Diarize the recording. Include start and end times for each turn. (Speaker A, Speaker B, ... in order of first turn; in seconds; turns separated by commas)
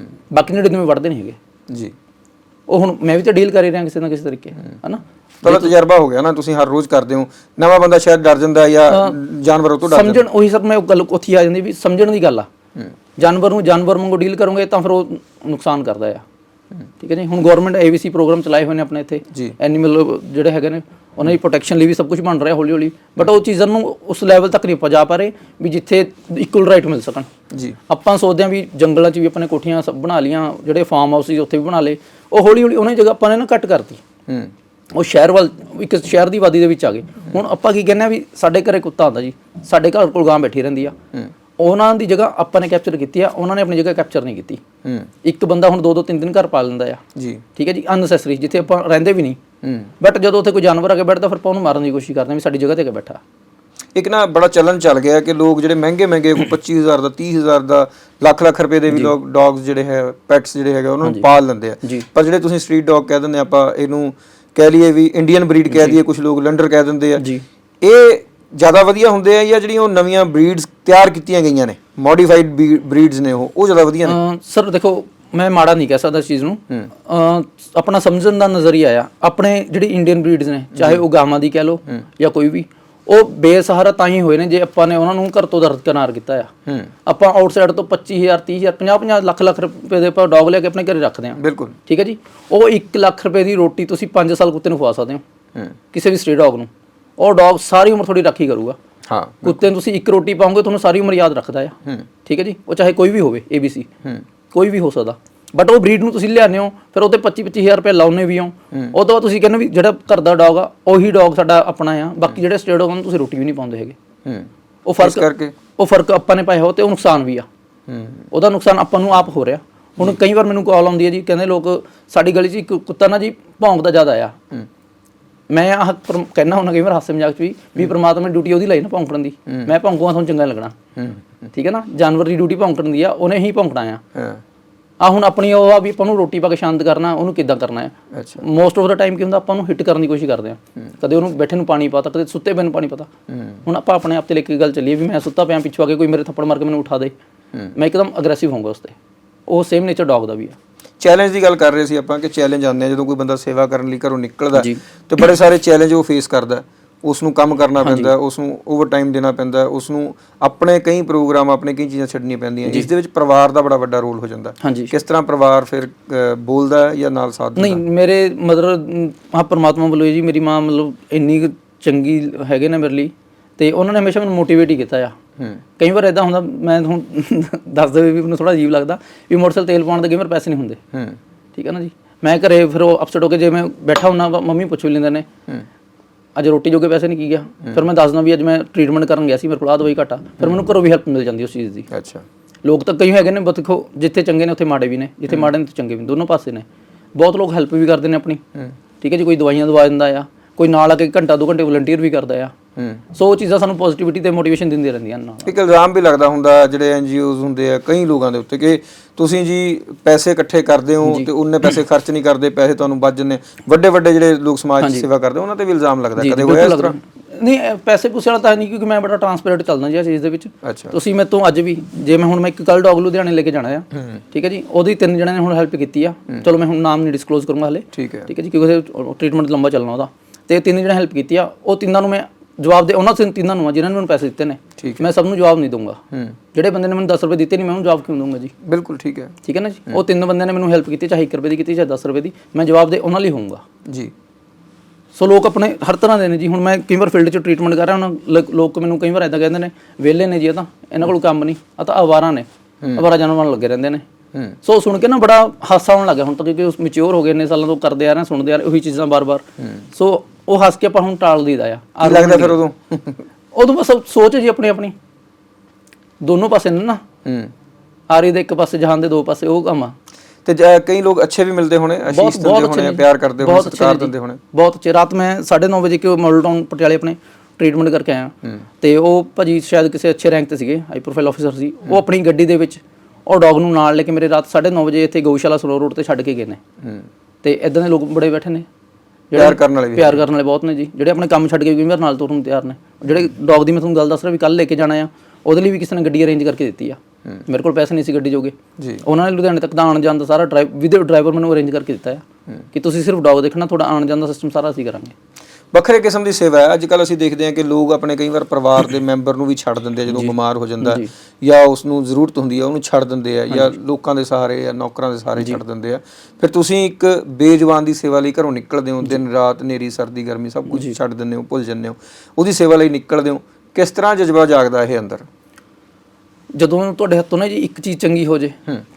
Speaker A: 0.3-1.4, Speaker B: 1.7-1.9, Speaker A: 2.7-5.7, Speaker B: 5.4-10.2, Speaker A: 8.9-9.2, Speaker A: 9.8-12.5, Speaker A: 13.2-16.2, Speaker A: 17.0-27.3, Speaker A: 27.9-34.0, Speaker A: 34.9-41.0, Speaker A: 41.6-44.6, Speaker B: 44.8-45.1, Speaker A: 45.2-47.0, Speaker B: 47.1-47.4, Speaker A: 47.5-49.4, Speaker B: 49.6-49.9, Speaker A: 50.0-53.2, Speaker B: 53.9-67.2, Speaker A: 61.0-61.3, Speaker A: 65.7-66.0, Speaker B: 67.8-74.2, Speaker A: 74.0-86.5, Speaker B: 80.8-81.0, Speaker B: 86.7-86.9, Speaker A: 87.0-95.2, Speaker B: 91.4-91.8, Speaker A: 95.9-98.8, Speaker B: 99.1-99.6, Speaker A: 99.4-103.9, Speaker A: 104.5-114.0, Speaker A: 114.8-117.5, Speaker B: 115.0-115.5, Speaker B: 117.9-118.2, Speaker A: 118.3-124.4, Speaker A: 125.5-130.8, Speaker B: 131.0-131.3, Speaker A: 131.5-134.0, Speaker B: 134.1-134.4, Speaker A: 135.0-143.1, Speaker B: 138.1-138.4, Speaker B: 143.3-143.6, Speaker A: 143.7-147.1, Speaker A: 147.8-149.0, Speaker A: 149.5-150.6, Speaker B: 151.0-167.8, Speaker A: 154.5-154.8, Speaker A: 157.8-158.1, Speaker A: 164.6-164.9, Speaker A: 167.6-175.2, Speaker A: 175.8-180.8, Speaker A: 181.5-185.3, Speaker A: 186.3-191.9, Speaker B: 191.9-192.2, Speaker A: 192.6-198.4, Speaker A: 199.0-202.5, Speaker B: 202.8-203.0, Speaker A: 203.1-205.5, Speaker B: 205.4-216.9, Speaker A: 214.8-215.1, Speaker A: 216.2-236.0, Speaker B: 220.6-221.0, Speaker B: 227.9-228.3, Speaker B: 234.8-235.0, Speaker A: 236.5-238.5, Speaker B: 238.6-239.3, Speaker A: 239.4-243.6, Speaker B: 243.9-244.1, Speaker A: 245.1-254.0, Speaker A: 254.6-262.6, Speaker B: 262.0-263.2, Speaker A: 263.5-264.9, Speaker A: 266.2-267.0, Speaker B: 267.2-267.5, Speaker A: 268.1-269.9, Speaker B: 270.4-274.4, Speaker A: 272.1-286.6, Speaker B: 286.8-287.1, Speaker A: 287.4-288.7, Speaker A: 289.3-305.1, Speaker B: 289.4-290.2, Speaker B: 298.8-299.0, Speaker B: 305.7-325.2, Speaker A: 310.1-311.1, Speaker A: 313.5-313.8, Speaker A: 320.7-320.9, Speaker A: 326.5-328.6